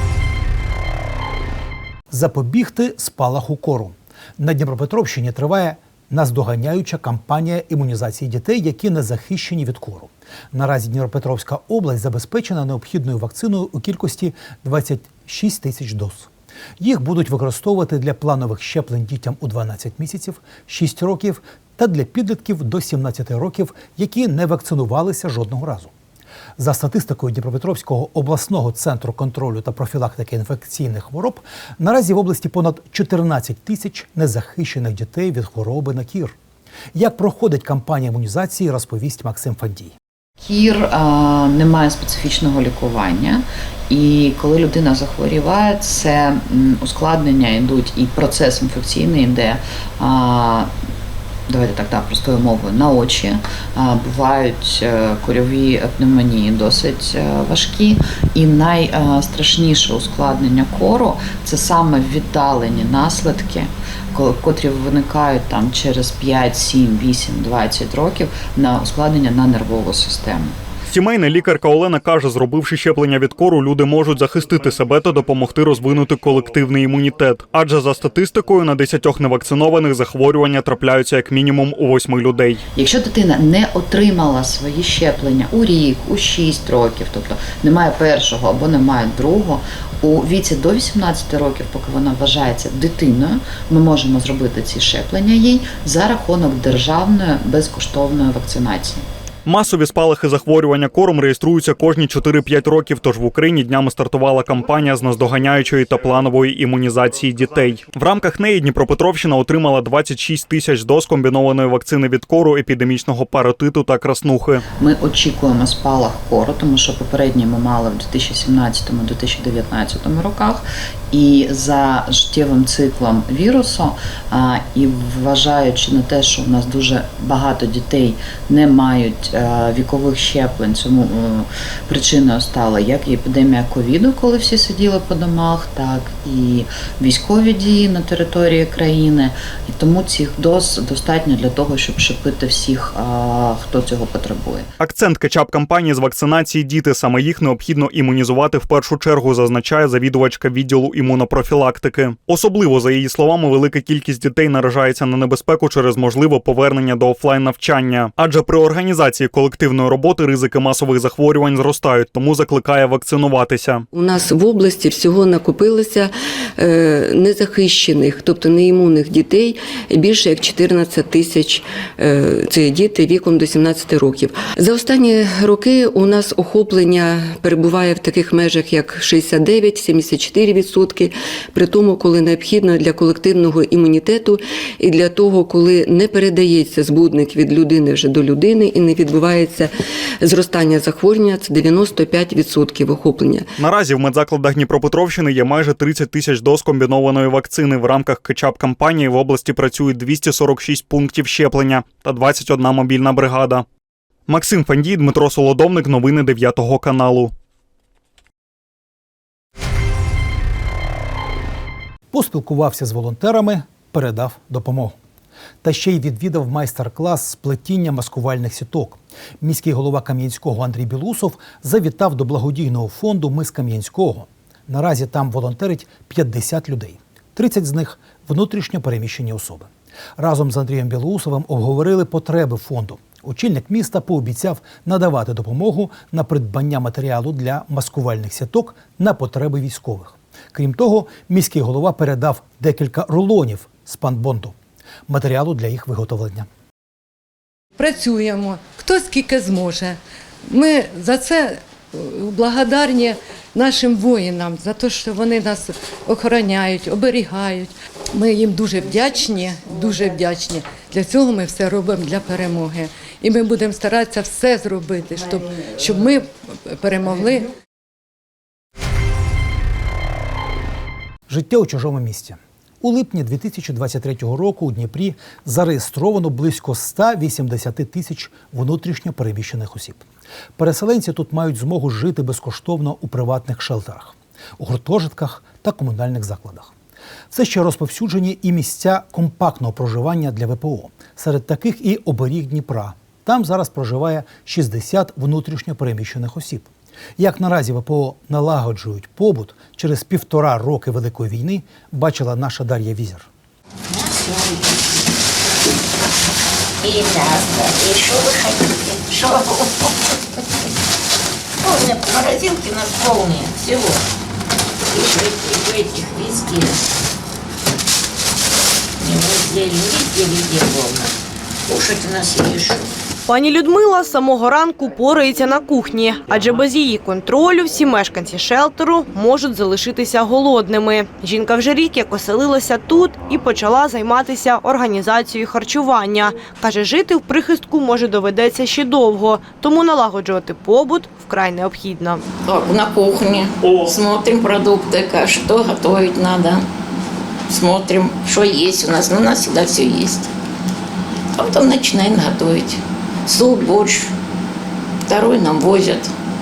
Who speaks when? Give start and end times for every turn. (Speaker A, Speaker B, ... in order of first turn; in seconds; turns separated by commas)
Speaker A: 2.1-25.9, Speaker A: 26.6-36.4, Speaker A: 36.9-39.9, Speaker B: 40.4-50.7, Speaker B: 51.5-70.6, Speaker C: 70.9-82.6, Speaker B: 82.8-99.0, Speaker C: 99.5-114.6, Speaker B: 114.8-144.7, Speaker C: 144.8-163.8, Speaker D: 163.9-193.5, Speaker C: 193.6-203.6, Speaker C: 204.3-207.3, Speaker A: 212.1-214.9, Speaker A: 215.6-244.5, Speaker A: 245.1-246.5, Speaker E: 247.8-249.9, Speaker E: 250.5-267.5, Speaker A: 271.3-280.0, Speaker A: 280.6-286.7, Speaker A: 287.3-303.3, Speaker F: 303.9-304.7, Speaker F: 306.8-309.7, Speaker F: 311.6-314.0, Speaker F: 314.9-316.8, Speaker F: 319.0-321.1, Speaker F: 321.7-322.8, Speaker G: 323.2-342.2, Speaker F: 342.4-346.6, Speaker F: 347.5-350.3, Speaker F: 351.4-354.1, Speaker F: 355.1-356.1